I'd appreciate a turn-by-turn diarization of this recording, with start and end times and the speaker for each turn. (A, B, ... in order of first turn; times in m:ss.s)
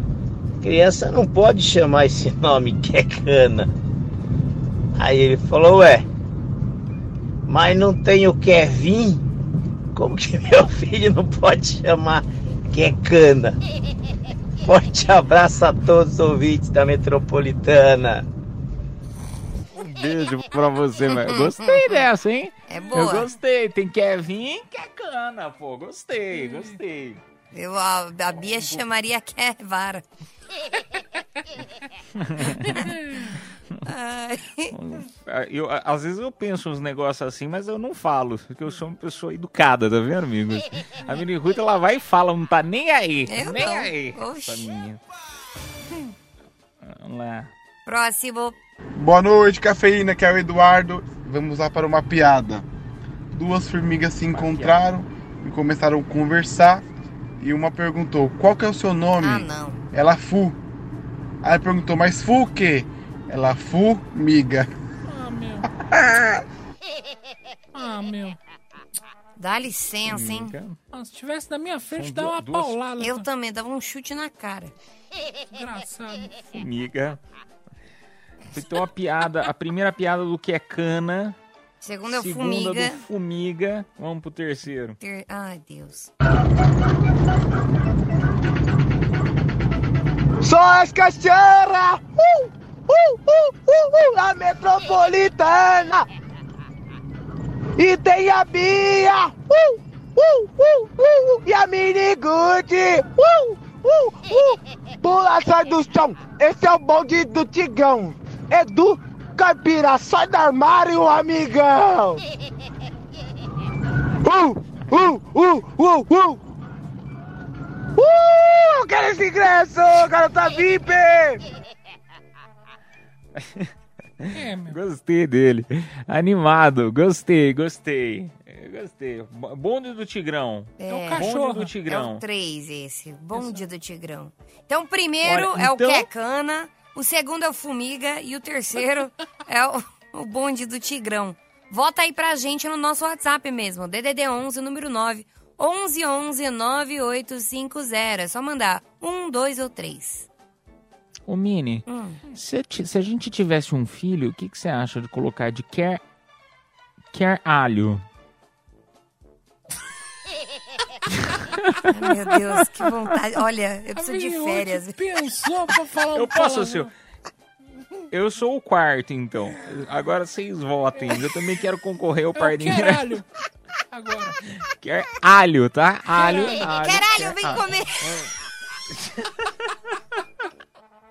0:00.6-0:03.7 A
0:05.0-0:06.0 A
0:07.5-0:09.2 A
0:10.0-0:13.6 A
0:14.6-0:18.2 A
0:19.8-0:27.2 B
0:21.1-0:22.1 C
0:22.7-0:23.3 C
0:26.3-0:26.7 D
0:27.5-0:30.0 C
0:32.2-0:32.8 B
0:33.9-0:34.7 C
0:34.7-0:45.0 B
0:43.3-0:44.7 C
0:46.8-0:47.5 B
0:47.9-0:48.6 C
0:49.0-0:52.6 E
0:53.3-0:56.8 E
0:54.3-0:54.8 B
0:57.4-1:00.6 E
0:59.2-0:59.8 C
1:01.4-1:04.7 E
1:05.1-1:05.7 D
1:07.7-1:08.4 D
1:09.4-1:10.6 C
1:10.1-1:10.8 B
1:10.9-1:13.2 D
1:11.9-1:12.8 B
1:13.0-1:14.7 C
1:15.5-1:16.3 D
1:16.5-1:17.2 B
1:18.5-1:21.4 B
1:21.8-1:23.0 C
1:22.1-1:25.0 B
1:25.0-1:26.1 C
1:30.4-1:36.1 F
1:37.8-1:52.2 F
1:54.2-1:56.4 F
1:58.0-2:01.4 F
2:03.4-2:12.2 B
2:04.3-2:04.8 D
2:10.8-2:11.3 C
2:10.9-2:11.7 D
2:11.9-2:30.3 C
2:13.4-2:13.6 D
2:15.2-2:16.1 B
2:31.3-2:36.0 B
2:31.9-2:32.2 C
2:37.1-2:38.0 B
2:41.3-2:41.9 B
2:41.9-2:45.0 C
2:44.0-2:46.9 D
2:46.1-2:46.9 B
2:48.1-2:53.1 B
2:52.4-2:53.2 D
2:53.9-2:54.4 D
2:54.6-2:58.3 B
2:56.1-2:56.7 D
2:56.7-2:58.2 C
2:59.0-2:59.5 B